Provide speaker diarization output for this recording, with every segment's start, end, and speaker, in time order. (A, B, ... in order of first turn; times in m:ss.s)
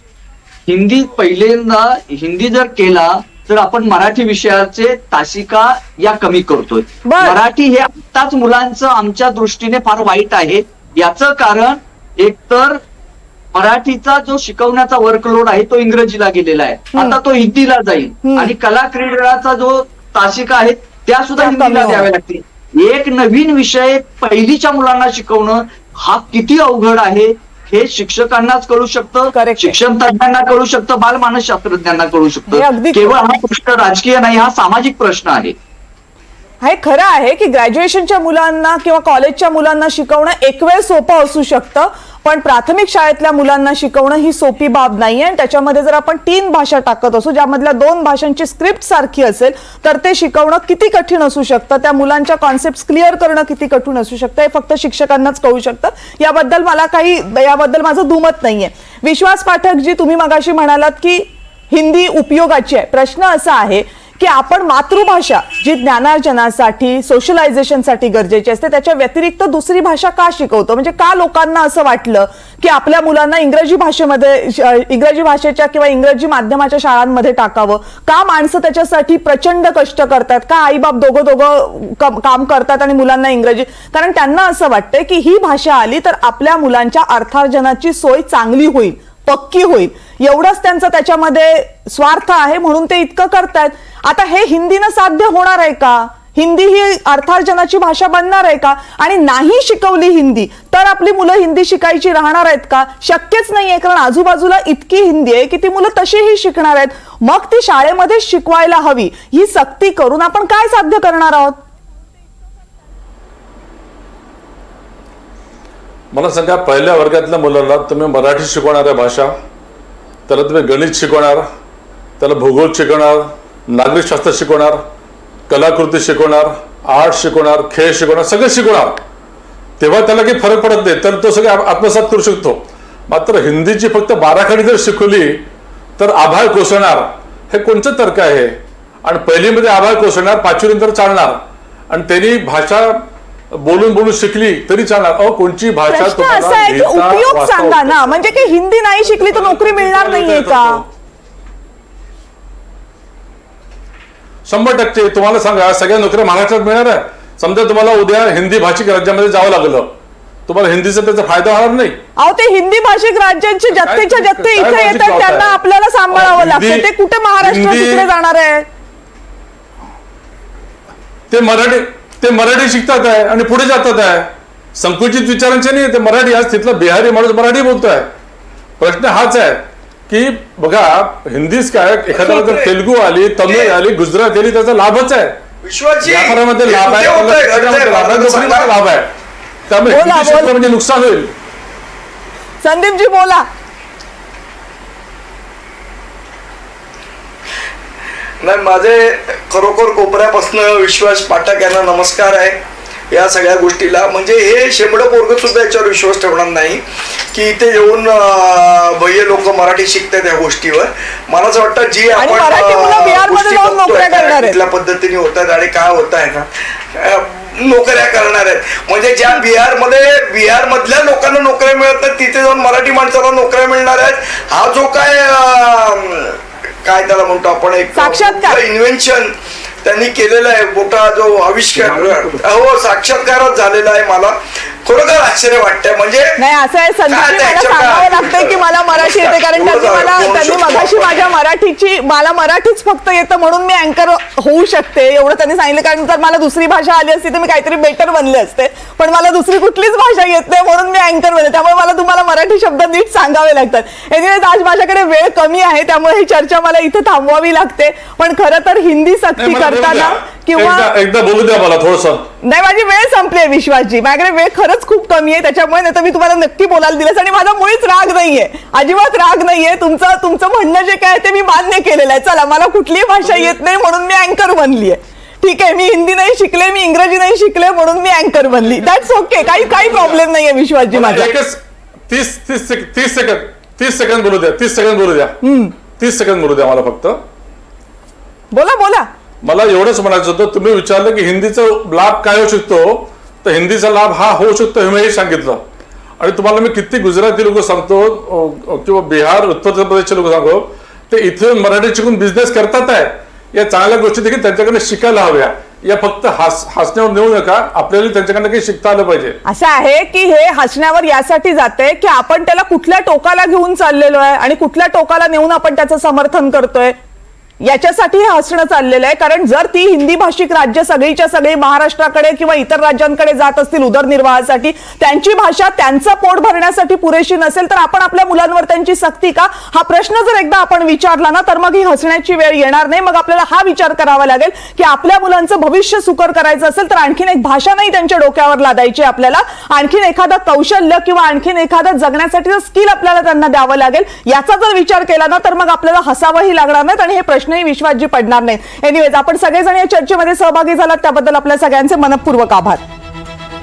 0:00.7-0:12.8 A
0:07.0-0:07.4 B
0:13.5-0:35.6 A
0:18.2-0:18.5 B
0:21.4-0:22.1 B
0:29.3-0:29.8 B
0:32.5-0:33.2 B
0:36.6-1:51.6 B
1:56.1-1:59.4 C
2:00.3-2:01.5 C
2:02.2-2:04.8 C
2:05.5-2:09.0 C
2:09.8-2:15.4 C
2:16.0-2:28.5 C
2:25.9-2:30.8 B
2:29.0-2:30.8 C
2:34.4-2:42.0 C
2:42.2-2:48.6 B
2:43.8-2:45.6 C
2:46.1-2:46.9 C
2:47.4-2:48.1 C
2:51.3-2:58.1 C
2:58.8-3:05.4 C
3:02.1-3:02.8 D
3:03.4-3:03.8 D
3:05.6-3:08.7 D
3:06.0-3:09.1 C
3:09.7-3:11.3 C
3:09.9-3:10.5 B
3:12.6-3:13.4 B
3:18.4-3:56.4 D
3:32.1-3:34.6 B
3:47.9-3:48.6 B
3:51.8-3:52.4 A
3:56.4-4:20.9 B
3:57.1-4:01.3 D
4:19.4-4:22.2 C
4:22.4-4:41.3 B
4:40.9-4:45.4 C
4:45.4-4:45.7 B
4:46.0-4:47.2 C
4:48.5-4:49.1 B
4:49.4-4:55.6 C
4:56.2-5:09.4 C
5:09.4-5:17.0 B
5:17.6-5:52.8 B